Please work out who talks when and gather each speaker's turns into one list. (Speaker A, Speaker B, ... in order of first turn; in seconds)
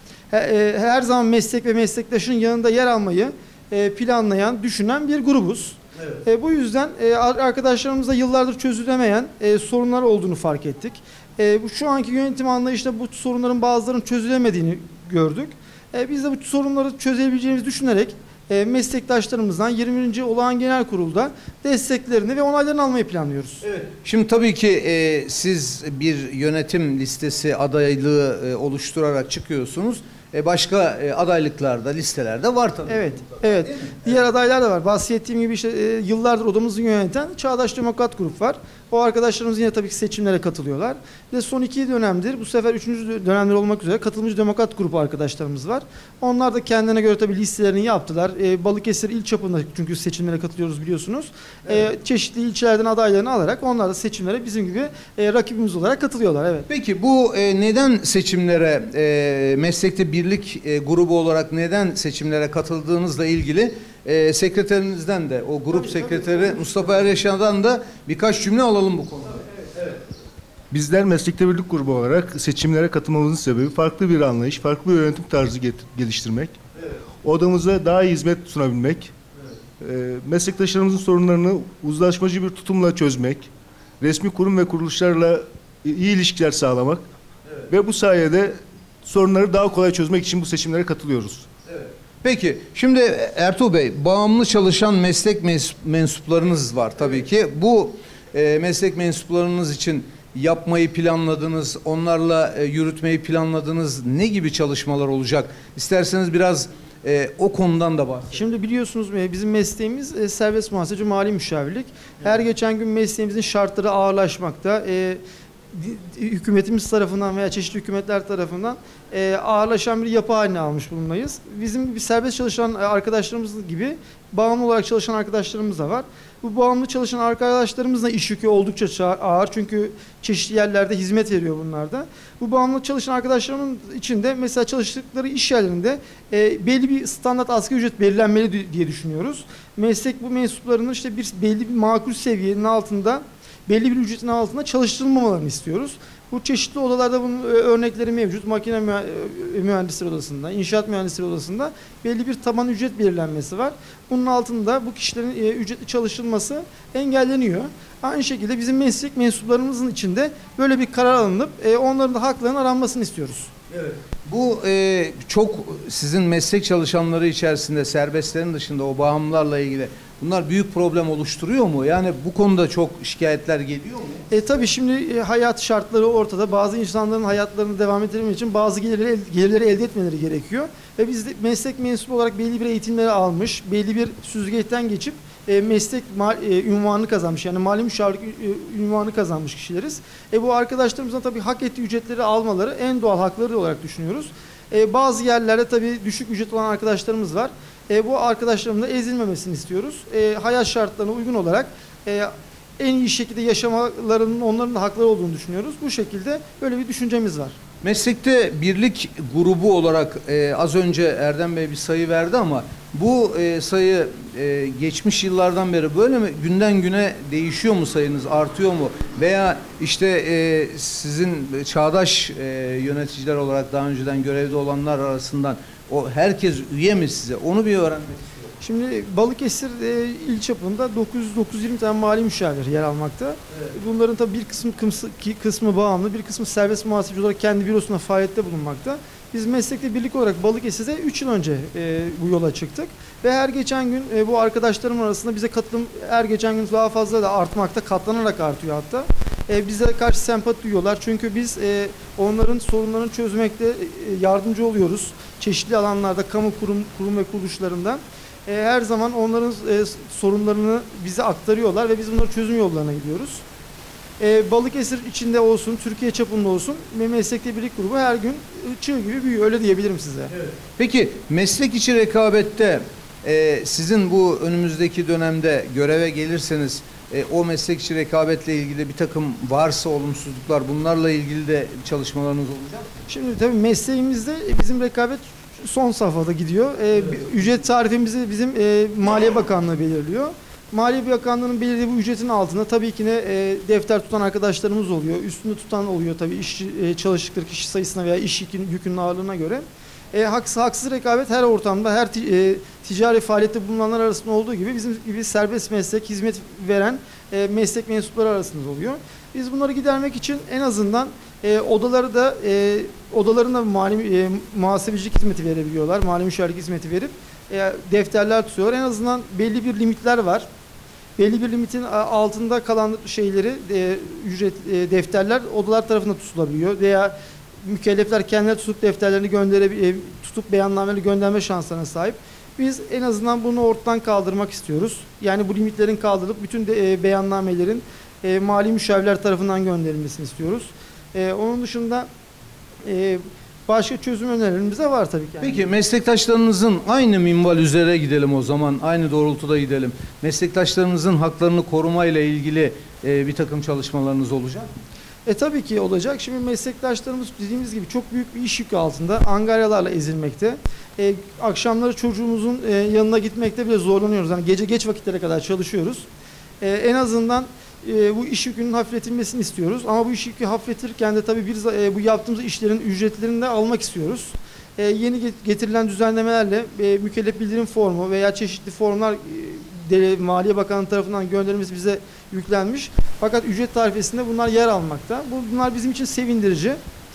Speaker A: 0.3-23.6, 32.9-56.7, 65.7-67.2, 108.3-115.2, 115.7-163.5, 174.3-207.6, 228.6-263.4, 264.2-270.3, 283.1-320.5, 321.2-342.1, 342.8-345.6, 355.2-366.1, 366.6-386.8
Speaker B: 23.6-33.9, 56.7-69.5, 91.7-108.4, 163.7-174.2, 207.8-228.5, 270.3-282.9, 345.4-354.7
Speaker C: 70.7-76.6, 77.2-79.1, 79.8-83.5, 84.0-87.0, 87.7-91.5